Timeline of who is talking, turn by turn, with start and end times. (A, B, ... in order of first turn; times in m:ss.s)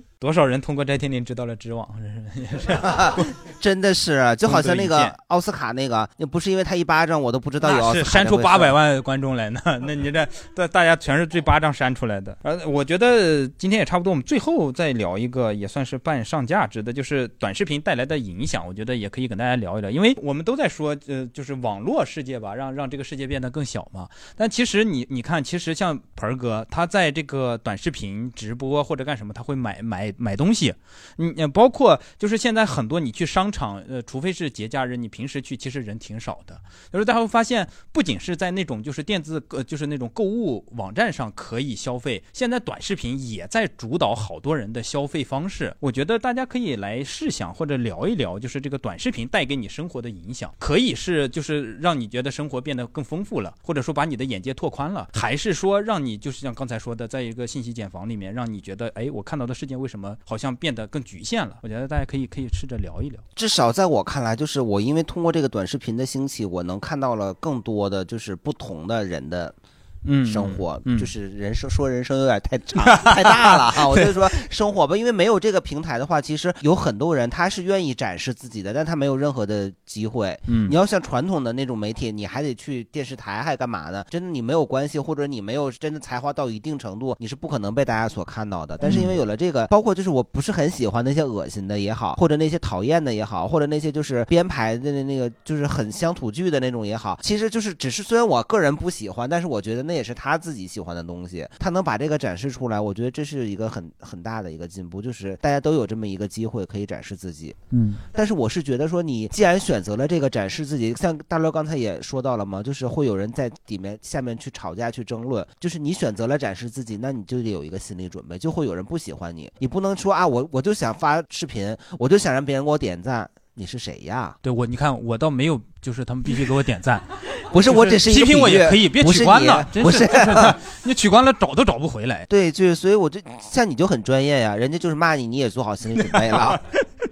0:00.2-0:03.3 A
0:02.8-0:08.8 B
0:04.4-0:05.1 A
0:07.6-1:03.2 A
1:03.4-1:09.6 B
1:10.0-1:11.1 A
1:10.2-1:47.6 B
1:12.8-1:14.3 A
1:20.5-1:20.8 A
1:28.8-1:29.1 A
1:47.7-1:48.0 A
1:48.1-2:04.4 B
2:04.4-2:12.3 A
2:07.5-2:10.6 B
2:12.3-2:16.6 B
2:16.0-2:16.8 A